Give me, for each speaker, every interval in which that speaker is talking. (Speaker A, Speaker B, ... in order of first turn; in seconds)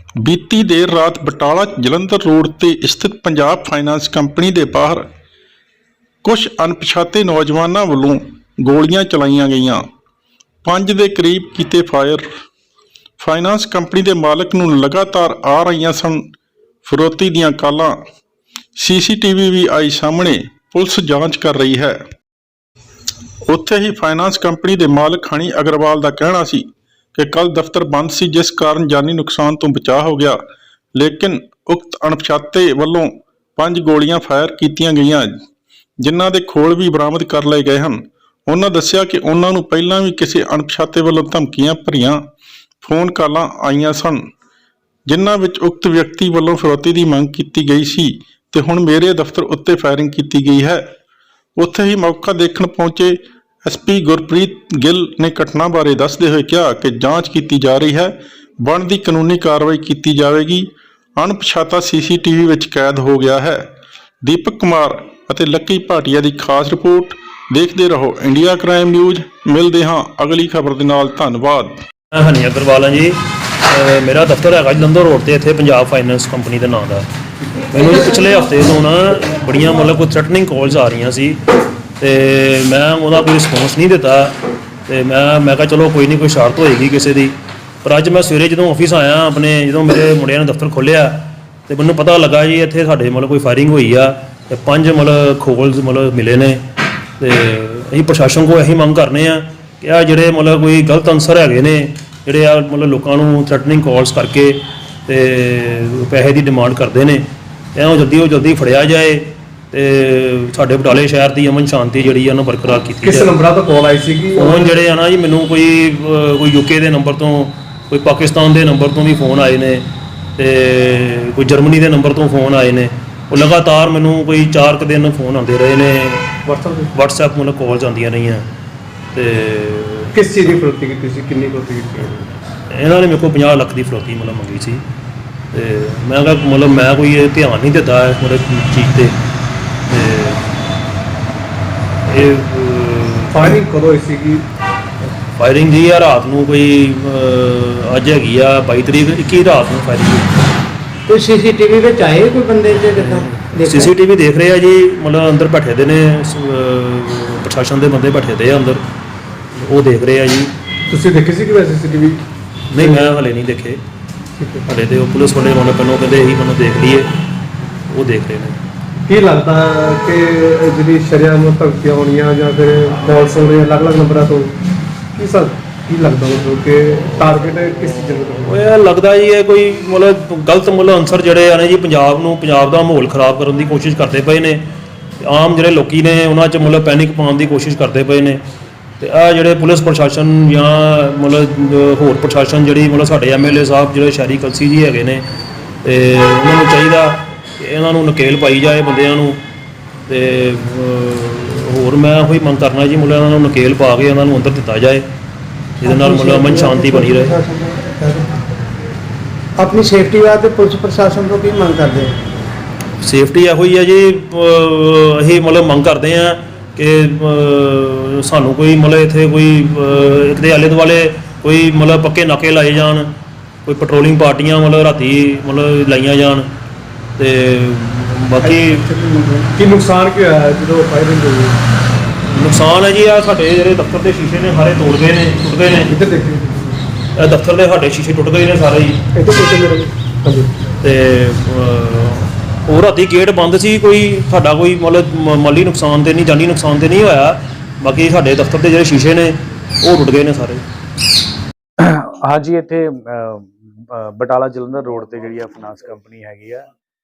Speaker A: 0.2-5.1, 6.2-9.9, 10.6-12.3, 13.2-16.2, 16.8-18.0, 18.8-22.0, 23.5-30.4, 30.9-35.4, 36.0-42.2, 42.8-44.2, 45.1-50.9, 51.6-63.7, 64.2-71.8
Speaker B: 72.1-77.1, 77.7-81.4, 82.0-84.3, 84.9-96.6, 97.2-107.2, 107.8-113.3, 114.4-119.8, 120.4-126.3, 126.9-128.4, 129.1-130.1, 132.7-134.8, 135.5-139.1, 139.9-140.4, 142.1-143.6, 145.4-150.3, 153.0-158.8, 159.5-160.5, 162.7-163.8, 164.7-167.1, 167.9-168.6, 178.4-184.6, 185.2-188.4, 189.0-195.2, 195.8-199.4, 200.1-205.1, 205.8-207.4, 213.0-223.1, 223.7-226.4, 227.2-228.9, 232.2-235.9, 237.2-239.0, 240.8-250.6
Speaker C: 113.0-114.8, 126.5-126.9, 130.1-132.3, 143.3-144.4, 160.9-162.2, 162.8-163.1, 164.4-164.7, 169.1-174.6, 175.1-178.5, 228.4-231.6, 235.9-236.8, 239.2-240.6
Speaker D: 151.1-153.9, 205.8-208.3, 209.6-212.2
Speaker E: 251.8-256.7